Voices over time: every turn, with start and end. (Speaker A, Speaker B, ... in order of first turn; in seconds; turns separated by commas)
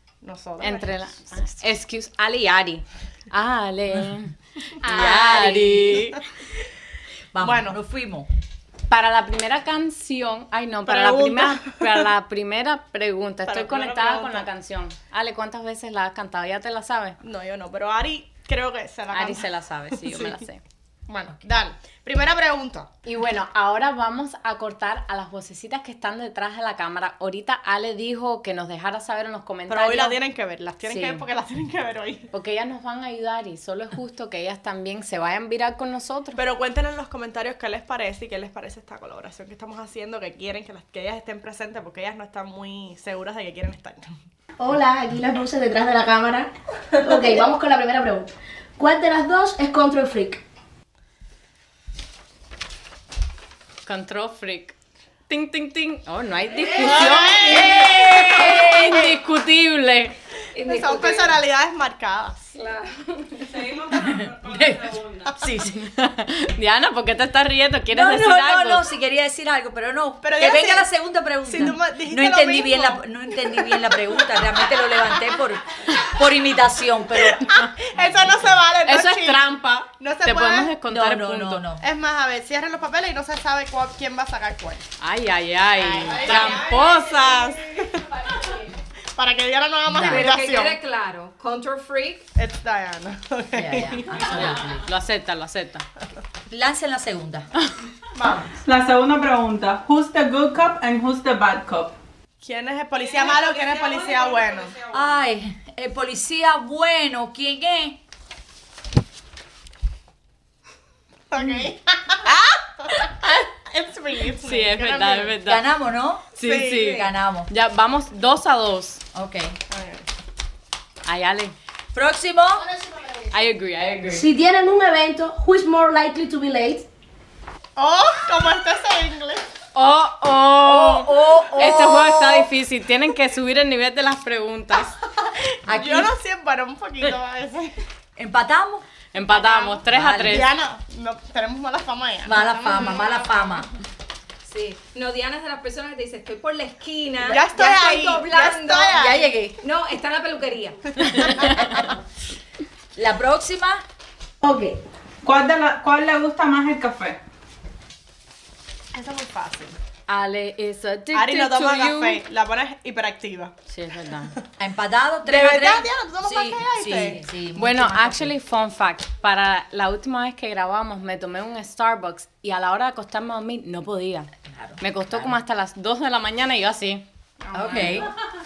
Speaker A: 0.2-0.9, Speaker B: 0.6-6.2, Speaker C: 4.9-6.0, Speaker A: 5.8-6.2, Speaker C: 7.3-8.3, Speaker A: 7.4-7.8, Speaker B: 8.9-17.2, Speaker A: 10.8-12.1, Speaker A: 13.5-14.5, Speaker A: 17.2-19.5, Speaker B: 19.1-20.6, Speaker A: 20.0-20.4, Speaker A: 21.1-22.9, Speaker B: 23.0-30.2, Speaker A: 29.7-32.3, Speaker B: 30.8-31.2, Speaker B: 32.3-36.4, Speaker A: 36.4-44.1, Speaker D: 44.6-46.5, Speaker D: 47.0-50.4, Speaker B: 53.8-54.7, Speaker B: 55.3-60.1, Speaker A: 56.8-58.4, Speaker C: 57.5-59.0, Speaker E: 60.5-61.4, Speaker A: 60.6-62.5, Speaker E: 62.5-63.5, Speaker F: 63.4-65.3, Speaker C: 64.1-65.8, Speaker B: 65.8-68.8, Speaker C: 67.9-77.5, Speaker A: 70.2-70.9, Speaker A: 71.4-73.0, Speaker A: 77.3-80.7, Speaker B: 78.8-81.6, Speaker C: 80.9-81.8, Speaker A: 81.8-84.8, Speaker B: 85.0-87.4, Speaker A: 85.8-88.6, Speaker E: 86.0-87.0, Speaker A: 89.1-90.8, Speaker C: 89.9-90.3, Speaker E: 90.0-92.2, Speaker A: 92.3-94.4, Speaker C: 93.5-94.8, Speaker B: 94.3-95.8, Speaker F: 94.4-94.7, Speaker C: 96.5-97.5, Speaker A: 98.1-98.5, Speaker F: 98.6-102.0, Speaker A: 102.4-104.7, Speaker F: 103.0-105.0, Speaker C: 104.9-108.0, Speaker A: 111.3-112.3, Speaker B: 112.2-113.5, Speaker A: 113.7-115.3, Speaker B: 114.3-115.7, Speaker C: 115.4-116.3, Speaker B: 116.3-119.0, Speaker A: 116.4-117.0, Speaker C: 116.9-117.5, Speaker C: 119.1-119.5, Speaker A: 119.7-120.1, Speaker B: 121.0-121.5, Speaker C: 121.9-122.7, Speaker B: 123.3-124.3, Speaker D: 124.1-126.9, Speaker A: 127.8-129.4, Speaker B: 129.7-134.9, Speaker C: 130.6-132.5, Speaker A: 135.2-137.8, Speaker C: 135.7-136.1, Speaker C: 138.2-138.8, Speaker B: 139.1-140.5, Speaker A: 139.1-143.3, Speaker C: 139.9-140.5, Speaker C: 142.2-143.7, Speaker E: 144.4-150.8, Speaker A: 147.2-149.2, Speaker C: 148.9-149.6, Speaker A: 151.0-151.4, Speaker B: 151.2-151.5, Speaker C: 151.4-151.9, Speaker C: 152.9-153.8, Speaker D: 154.4-154.8, Speaker F: 155.2-157.2, Speaker A: 158.9-159.8, Speaker B: 160.1-162.2, Speaker A: 161.1-163.5, Speaker B: 163.7-164.3, Speaker C: 164.6-168.3, Speaker A: 165.2-167.2, Speaker B: 167.6-174.3, Speaker C: 174.5-175.4, Speaker B: 174.8-177.0, Speaker A: 177.4-178.1, Speaker C: 177.5-178.1